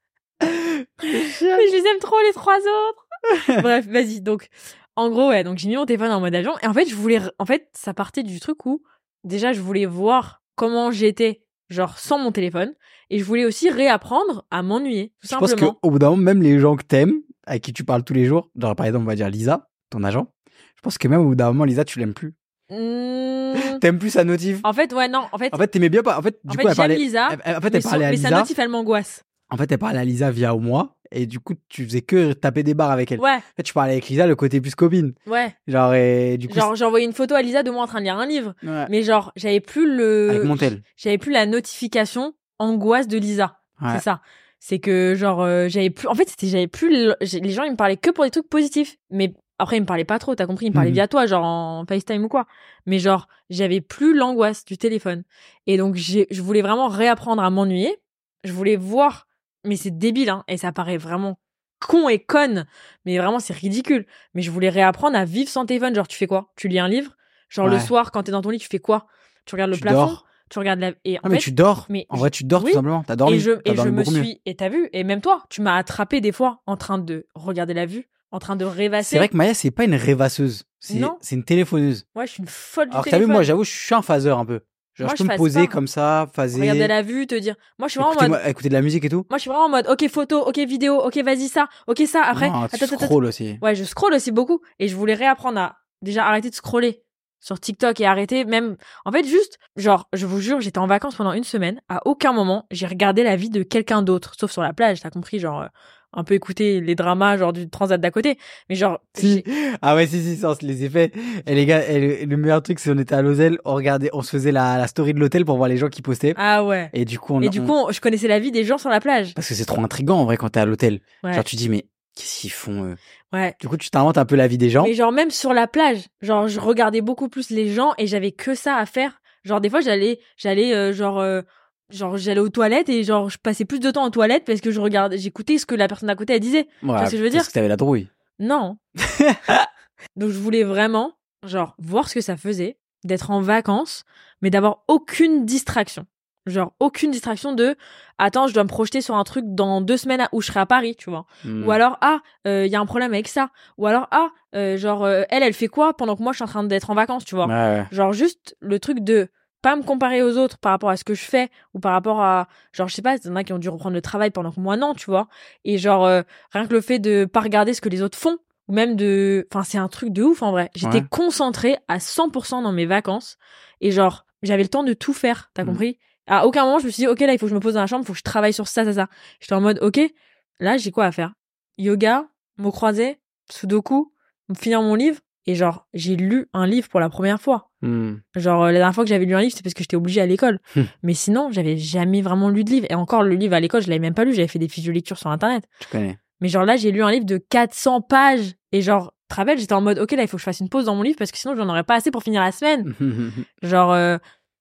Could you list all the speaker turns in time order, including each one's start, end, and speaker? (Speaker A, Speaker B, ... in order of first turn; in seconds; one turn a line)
Speaker A: 0.4-1.7
Speaker B: 1.5-3.0
Speaker A: 3.3-3.6
Speaker B: 3.5-15.8
Speaker A: 15.3-22.4
Speaker B: 22.7-23.8
Speaker A: 23.6-24.6
Speaker B: 24.6-25.6
Speaker A: 25.5-28.5
Speaker B: 26.5-29.2
Speaker A: 29.5-35.1
Speaker B: 33.2-33.4
Speaker B: 35.3-35.5
Speaker A: 35.7-36.7
Speaker B: 36.5-79.3
Speaker A: 38.6-38.9
Speaker A: 40.3-40.8
Speaker A: 43.8-44.0
Speaker A: 50.7-51.0
Speaker A: 67.6-67.9
Speaker A: 69.7-70.2
Speaker A: 71.2-74.3
Speaker A: 79.0-82.0
Speaker B: 80.9-81.2
Speaker B: 82.2-83.5
Speaker A: 82.9-86.9
Speaker B: 85.0-85.8
Speaker B: 86.5-88.4
Speaker A: 88.0-89.3
Speaker B: 89.3-109.5
Speaker A: 92.3-93.6
Speaker A: 109.2-116.4
Speaker B: 116.4-119.4
Speaker A: 116.9-117.7
Speaker A: 119.4-123.0
Speaker B: 123.3-123.6
Speaker A: 123.6-124.9
Speaker B: 124.8-137.5
Speaker A: 136.8-138.1
Speaker B: 138.4-138.8
Speaker A: 139.0-139.7
Speaker B: 140.2-187.7
Speaker A: 151.4-151.8
Speaker A: 157.4-157.9
Speaker A: 170.8-171.1
Speaker A: 187.8-188.2
Speaker B: 188.3-195.7
Speaker A: 195.8-196.2
Speaker B: 196.4-202.9
Speaker A: 202.8-203.5
Speaker B: 203.6-204.2